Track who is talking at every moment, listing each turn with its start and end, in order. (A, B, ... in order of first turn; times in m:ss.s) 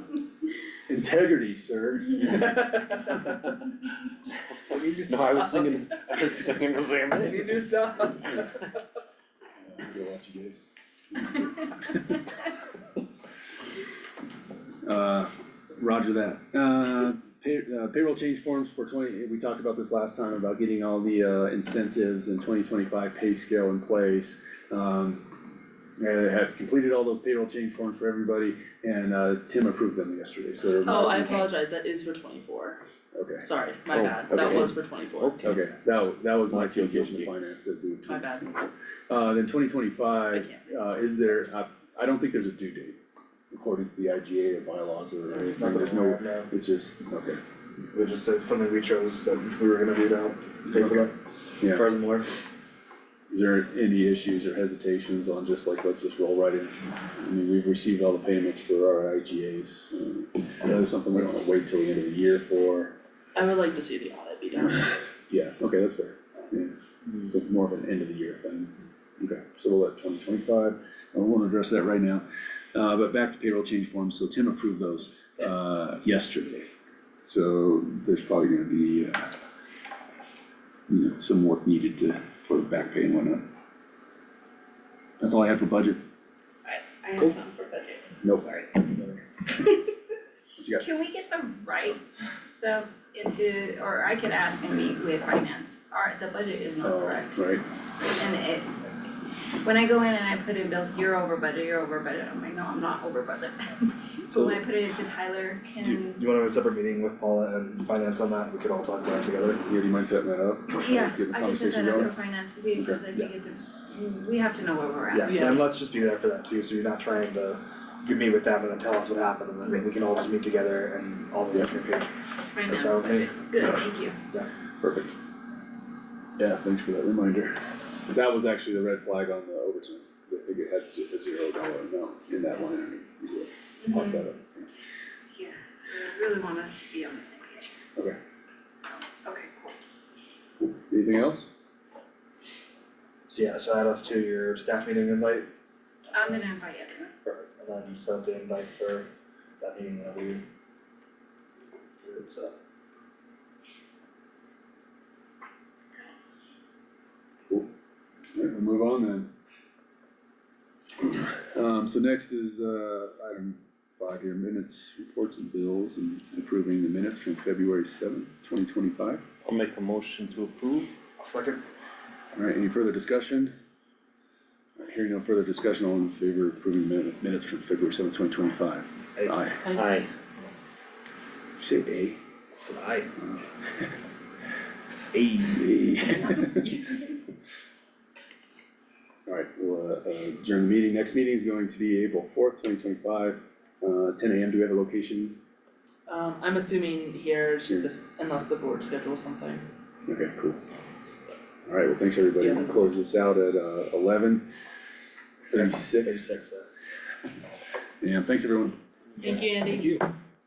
0:00.9-0:03.1 A
0:04.7-0:05.8 B
0:05.0-0:07.7 C
0:07.2-0:08.3 B
0:09.6-0:12.0 A
0:14.8-0:25.3 A
0:26.0-0:31.3 A
0:30.8-0:32.8 D
0:30.8-0:31.5 E
0:33.1-0:33.4 A
0:33.4-0:35.4 D
0:33.9-0:35.6 C
0:34.3-0:34.7 A
0:35.4-0:38.3 A
0:36.5-0:37.3 C
0:38.0-0:38.5 D
0:39.1-0:43.0 A
0:43.5-0:47.4 A
0:45.3-0:45.6 D
0:45.3-0:46.5 B
0:47.9-0:52.3 B
0:50.7-0:51.0 A
0:53.3-1:03.0 A
1:03.3-1:05.0 D
1:05.3-1:06.7 A
1:07.2-1:16.7 A
1:17.2-1:19.3 A
1:20.9-1:23.4 A
1:25.2-1:26.0 A
1:26.7-1:29.0 E
1:28.2-1:28.5 A
1:30.6-1:31.0 A
1:30.8-1:38.9 E
1:36.8-1:37.6 A
1:39.6-1:46.2 E
1:44.3-1:44.6 B
1:45.8-1:49.6 B
1:49.6-1:52.1 A
1:50.7-1:55.6 E
1:55.1-2:02.1 B
1:55.2-1:55.7 D
2:02.5-2:04.2 E
2:02.7-2:03.3 B
2:04.8-2:05.1 A
2:06.4-2:14.7 A
2:13.8-2:14.2 E
2:15.3-2:17.7 E
2:18.8-2:19.8 E
2:20.6-2:21.5 A
2:23.3-2:25.5 B
2:26.1-2:27.1 E
2:26.2-2:26.5 B
2:27.2-2:29.1 B
2:29.6-2:30.4 B
2:32.0-2:32.6 B
2:38.3-2:39.3 A
2:41.0-2:49.2 A
2:49.4-2:50.9 C
2:51.2-2:51.6 B
2:52.3-2:53.5 A
2:54.8-2:59.6 A
2:59.6-3:00.1 D
2:59.8-3:00.1 C
3:01.6-3:02.2 A
3:02.6-3:03.1 B
3:03.2-3:03.9 A
3:05.1-3:05.6 B
3:05.4-3:07.1 A
3:09.3-3:15.4 A
3:16.1-3:19.6 D
3:20.0-3:20.6 A
3:21.7-3:24.5 A
3:22.4-3:22.7 D
3:25.5-3:26.3 A
3:25.5-3:26.7 B
3:28.0-3:28.8 A
3:29.2-3:30.0 B
3:29.2-3:30.0 D